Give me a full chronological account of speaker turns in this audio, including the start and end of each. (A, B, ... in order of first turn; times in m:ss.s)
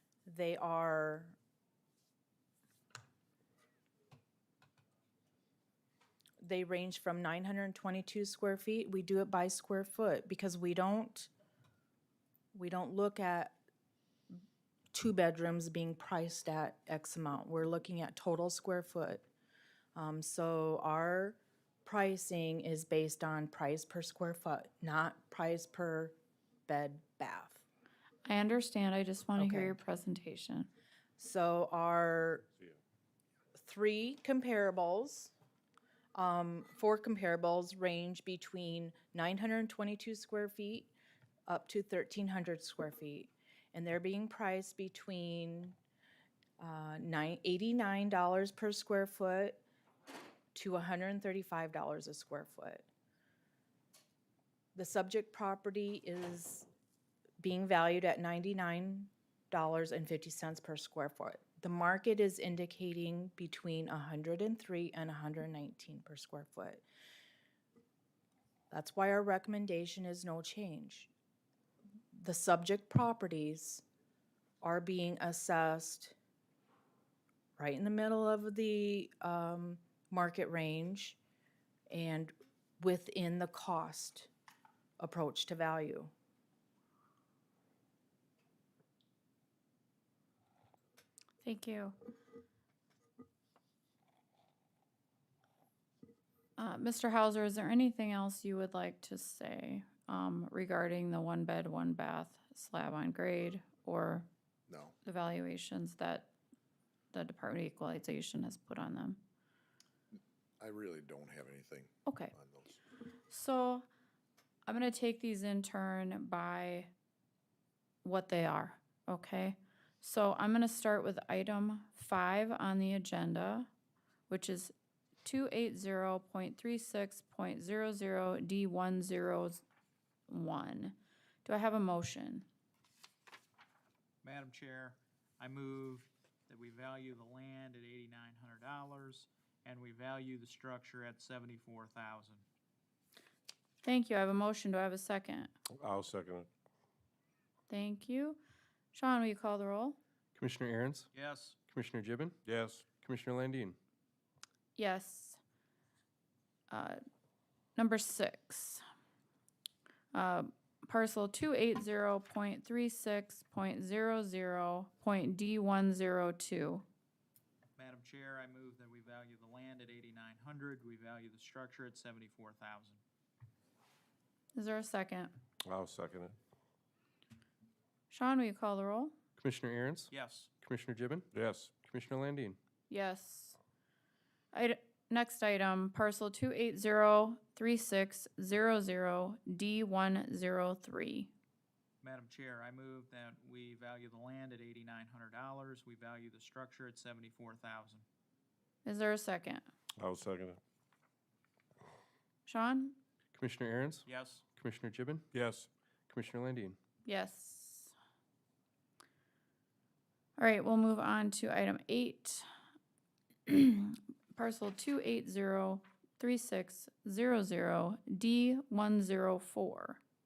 0:00.3-0:01.4 A
0:06.4-0:11.3 A
0:12.5-0:13.6 A
0:14.9-0:19.2 A
0:20.0-0:27.6 A
0:28.3-0:30.7 B
0:29.4-0:29.8 A
0:31.2-0:32.5 A
0:33.6-0:35.3 A
0:36.2-0:40.9 A
0:41.5-0:45.8 A
0:46.6-0:49.6 A
0:50.5-0:52.9 A
0:54.8-0:56.7 A
0:57.4-1:06.8 A
1:08.7-1:11.1 A
1:12.1-1:13.8 A
1:14.6-1:16.2 A
1:17.6-1:21.2 A
1:21.9-1:24.3 A
1:25.0-1:26.1 A
1:31.4-1:32.0 B
1:36.6-1:44.3 B
1:44.7-1:44.9 C
1:45.0-1:46.3 B
1:47.1-1:49.2 B
1:50.6-1:52.8 C
1:52.1-1:52.3 B
1:53.3-1:53.9 B
1:54.7-1:56.9 B
1:58.0-2:03.7 B
2:04.3-2:04.7 B
2:05.2-2:09.6 B
2:10.3-2:12.5 B
2:14.2-2:22.4 D
2:23.8-2:25.5 B
2:25.7-2:26.5 E
2:27.7-2:28.4 B
2:28.9-2:30.0 B
2:30.4-2:31.1 F
2:31.1-2:31.6 D
2:31.7-2:33.8 F
2:32.5-2:32.9 E
2:34.8-2:35.4 B
2:36.7-2:37.0 B
2:37.8-2:38.8 B
2:40.1-2:46.8 B
2:47.8-2:53.0 D
2:54.5-2:55.3 B
2:55.7-2:56.4 E
2:58.1-2:59.1 B
2:59.4-3:00.1 F
3:00.1-3:00.5 D
3:00.6-3:02.6 F
3:01.3-3:01.7 E
3:02.9-3:03.6 B
3:04.5-3:11.3 B
3:12.0-3:18.0 D
3:18.8-3:19.6 B
3:20.0-3:20.6 E
3:22.5-3:23.0 B
3:23.4-3:25.2 F
3:24.1-3:24.4 D
3:25.3-3:25.7 E
3:26.1-3:26.8 F
3:27.1-3:27.9 B
3:30.4-3:32.5 B
3:33.5-3:40.0 B